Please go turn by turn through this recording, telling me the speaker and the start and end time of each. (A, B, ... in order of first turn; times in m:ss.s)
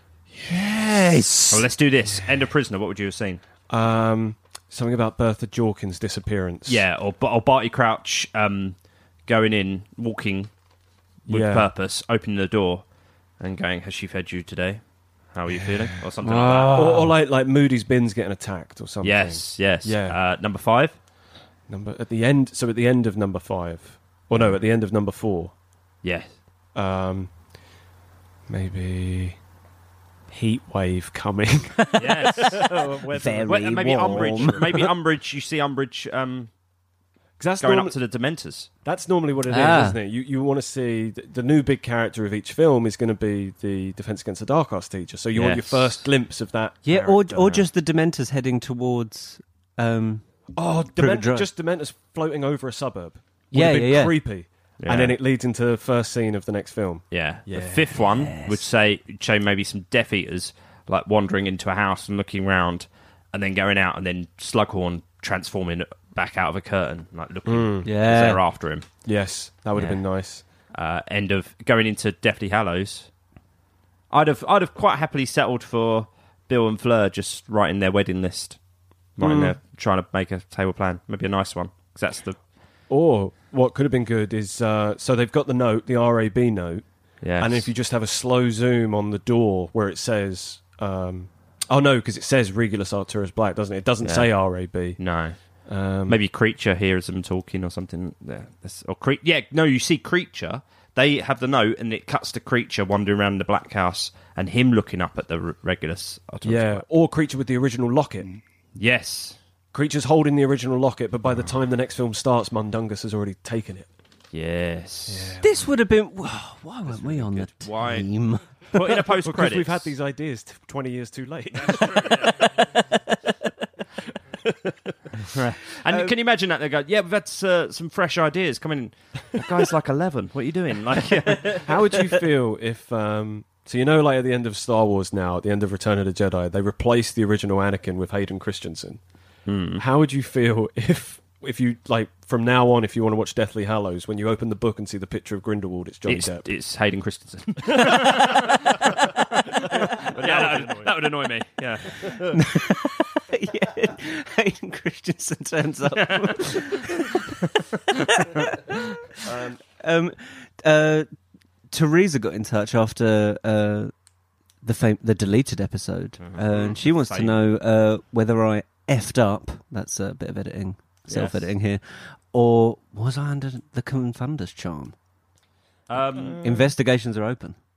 0:00.4-0:01.6 A
0:00.8-0:01.5 B
0:01.5-0:03.4 C
0:03.7-0:06.8 A
0:06.7-0:10.5 C
0:11.3-0:12.8 C
0:11.3-0:11.7 A
0:13.4-0:17.0 C
0:16.2-0:17.2 B
0:16.7-0:20.2 A
0:19.0-0:21.0 C
0:21.7-0:25.5 A
0:26.0-0:26.3 C
0:26.8-0:27.3 A
0:28.5-0:29.4 A
0:30.3-0:34.8 A
0:32.0-0:32.8 C
0:33.1-0:34.9 B
0:33.4-0:36.5 C
0:37.4-0:38.0 A
0:37.6-0:38.7 C
0:38.8-0:47.6 A
0:39.5-0:40.0 B
0:45.3-0:46.0 C
0:46.8-0:50.2 B
0:50.6-0:58.0 A
0:51.0-0:51.5 B
0:53.5-0:54.2 B
0:54.8-0:55.2 C
0:57.1-1:08.9 C
0:58.0-0:58.6 B
1:07.5-1:07.9 A
1:07.8-1:08.4 B
1:09.0-1:10.4 A
1:09.8-1:10.0 C
1:10.7-1:13.1 C
1:14.1-1:18.6 C
1:19.2-1:22.4 C
1:19.2-1:19.6 A
1:22.9-1:26.9 A
1:27.2-1:27.7 C
1:27.4-1:35.0 A
1:34.0-1:35.4 C
1:35.6-1:36.2 A
1:36.1-1:46.8 C
1:46.4-1:48.3 A
1:48.8-1:49.4 C
1:49.7-1:53.9 A
1:54.3-1:55.4 C
1:55.1-1:55.7 A
1:55.4-1:58.5 B
1:56.9-1:58.1 C
1:58.6-1:59.9 C
1:58.7-2:02.8 A
2:01.6-2:02.7 C
2:04.3-2:05.2 A
2:05.3-2:12.0 C
2:11.6-2:19.0 A
2:19.5-2:19.8 C
2:19.8-2:26.5 A
2:26.1-2:32.4 C
2:27.7-2:28.9 A
2:29.5-2:31.0 A
2:32.3-2:37.1 B
2:36.0-2:37.2 C
2:37.9-2:39.0 B
2:39.2-2:39.6 A
2:39.8-2:41.1 B
2:41.7-2:43.9 B
2:44.6-2:55.0 B
2:46.2-2:47.4 C
2:51.1-2:51.5 C
2:55.9-2:56.4 C
2:56.2-2:56.7 A
2:56.4-2:57.6 B